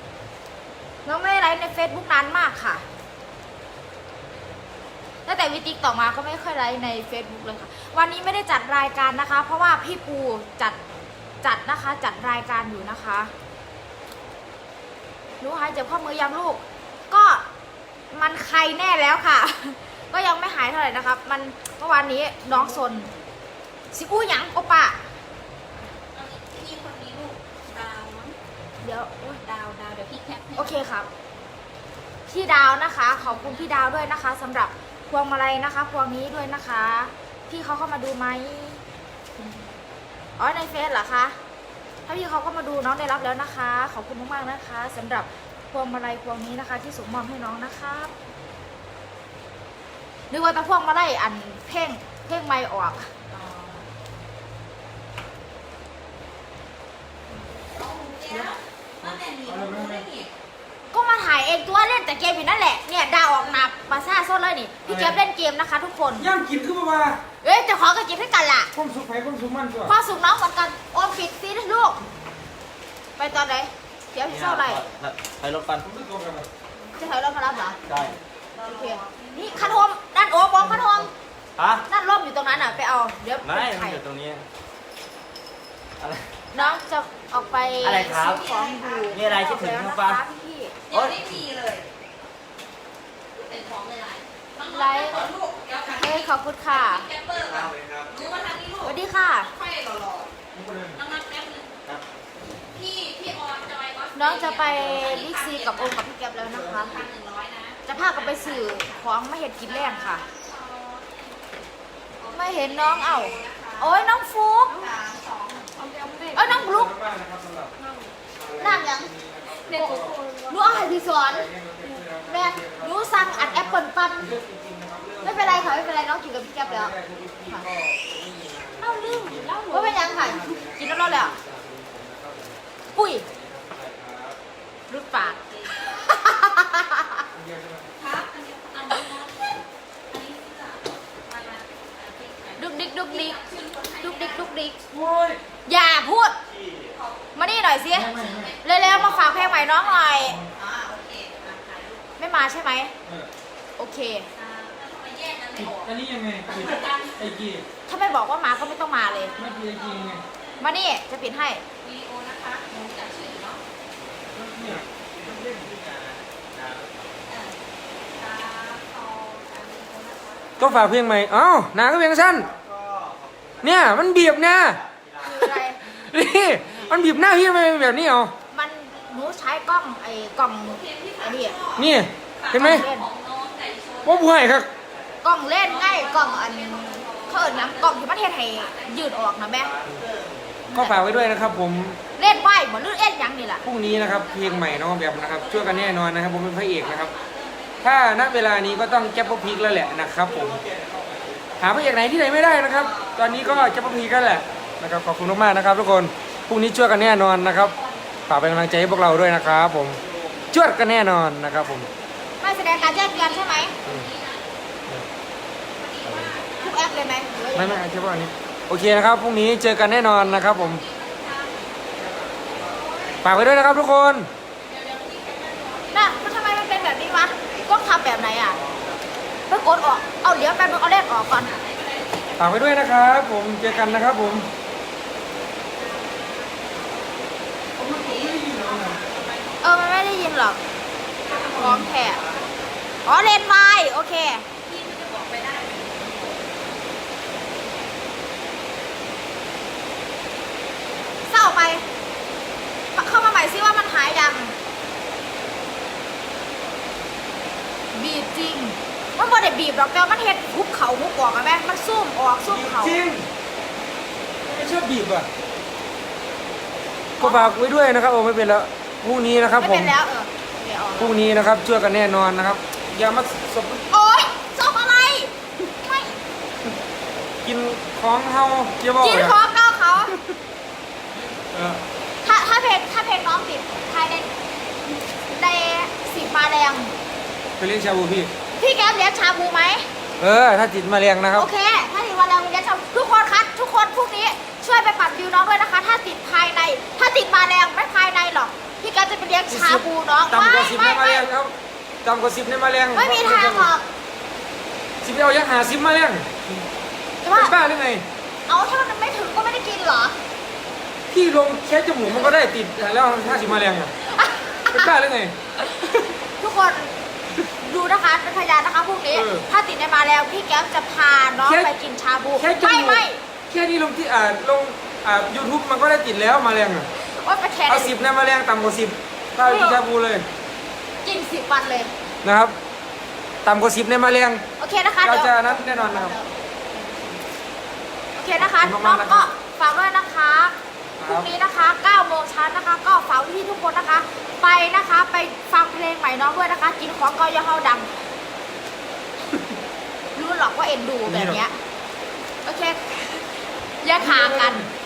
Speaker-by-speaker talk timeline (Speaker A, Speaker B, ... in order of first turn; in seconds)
Speaker A: 1.1-2.8, 5.2-10.8, 11.4-13.3, 15.4-17.4, 18.1-23.1, 23.9-25.0, 28.8-29.4, 30.6-31.1, 32.3-38.8, 40.4-41.4, 42.1-48.1, 50.3-53.1, 58.3-58.6, 60.9-66.3, 67.4-68.7, 69.9-72.0, 73.2-74.9, 77.0-77.8, 78.6-81.1, 81.9-84.0, 86.5-90.8, 94.6-95.2, 95.9-97.1, 98.8-99.5, 104.2-107.0, 107.8-110.2, 112.3-114.8, 116.3-116.9, 118.6-119.1, 119.7-121.5, 122.2-124.4, 125.2-126.9, 129.7-131.3, 132.9-133.2, 134.9-137.2, 142.6-143.4, 144.0-144.8, 145.7-146.4, 147.3-150.4, 152.2-152.9, 153.8-154.3, 157.9-159.4, 160.6-161.6, 175.2-175.8, 178.5-181.6, 182.5-183.1, 185.2-189.7, 190.7-191.0, 192.2-193.7, 212.4-213.7, 216.6-217.8, 225.9-228.6, 229.5-231.5, 239.6-240.6, 241.5-242.2, 243.1-244.4, 251.3-251.9, 252.9-254.5, 257.9-263.0, 267.2-267.5, 269.6-271.2, 273.9-276.2, 279.0-280.2, 282.2-284.3, 285.3-286.9, 288.6-289.9, 291.4-301.2, 302.9-303.9, 307.2-307.5, 308.5-310.2, 314.1-314.9, 316.4-316.9, 317.6-323.2, 327.0-327.9, 329.4-329.8, 331.0-331.9, 334.6-336.2, 338.2-347.9, 350.1-351.6, 352.4-354.6
Speaker B: 26.1-28.4, 29.4-30.8, 33.2-34.0, 39.4-39.7, 53.3-53.9, 57.3-60.3, 78.5-79.8, 87.8-89.2, 90.9-91.9, 93.3-100.3, 100.9-101.8, 102.7-109.0, 109.6-114.1, 114.7-116.4, 117.8-118.2, 119.5-120.5, 128.8-130.5, 135.1-136.0, 138.0-139.5, 140.1-144.5, 146.9-147.5, 148.0-152.2, 154.3-155.9, 156.5-157.3, 158.8-160.6, 161.8-163.6, 167.3-167.6, 168.1-170.7, 180.6-184.8, 185.6-189.4, 193.8-196.1, 196.8-200.0, 202.6-203.3, 207.5-208.8, 212.5-214.4, 215.8-217.8, 220.1-223.3, 224.6-227.7, 229.6-232.7, 233.6-234.5, 235.7-240.1, 241.2-242.8, 244.7-246.5, 336.7-337.2
Speaker C: 59.0-60.1, 64.9-65.2, 66.2-67.2, 68.7-70.0, 75.8-76.5, 100.5-101.0, 116.3-117.7, 118.3-126.0, 126.6-134.4, 137.3-137.9, 144.9-145.4, 147.9-148.5, 155.6-157.7, 159.4-160.2, 164.3-164.8, 170.6-172.5, 173.6-174.8, 175.5-178.3, 181.8-182.8, 184.1-184.7, 190.7-192.0, 193.6-197.1, 197.8-200.6, 201.6-207.8, 208.3-211.9, 217.6-220.8, 223.2-224.3, 232.4-234.5, 237.8-239.0, 241.6-241.9, 262.5-263.3, 264.5-265.3, 267.2-269.9, 271.0-273.8, 277.4-279.4, 281.5-281.8, 287.6-288.3, 290.2-291.5, 299.5-303.7, 305.0-306.6, 307.3-308.1, 311.1-313.9, 314.7-316.1, 319.1-319.5, 321.4-321.7, 322.4-326.9, 327.7-330.3, 332.2-332.6, 333.4-334.4, 335.0-336.2, 338.5-339.3, 341.0-341.3, 351.1-351.4, 354.0-354.7
Speaker D: 74.3-75.9, 77.9-78.2, 81.6-81.8, 83.4-84.5, 86.0-86.3, 87.8-88.4, 89.1-90.2, 90.9-91.3, 97.3-98.5, 106.4-107.0, 146.4-147.0, 164.6-167.2, 172.4-175.5, 176.6-177.2, 184.9-185.3, 189.6-190.7, 200.1-201.8, 203.3-204.8, 209.9-210.6, 222.0-223.2, 228.6-228.9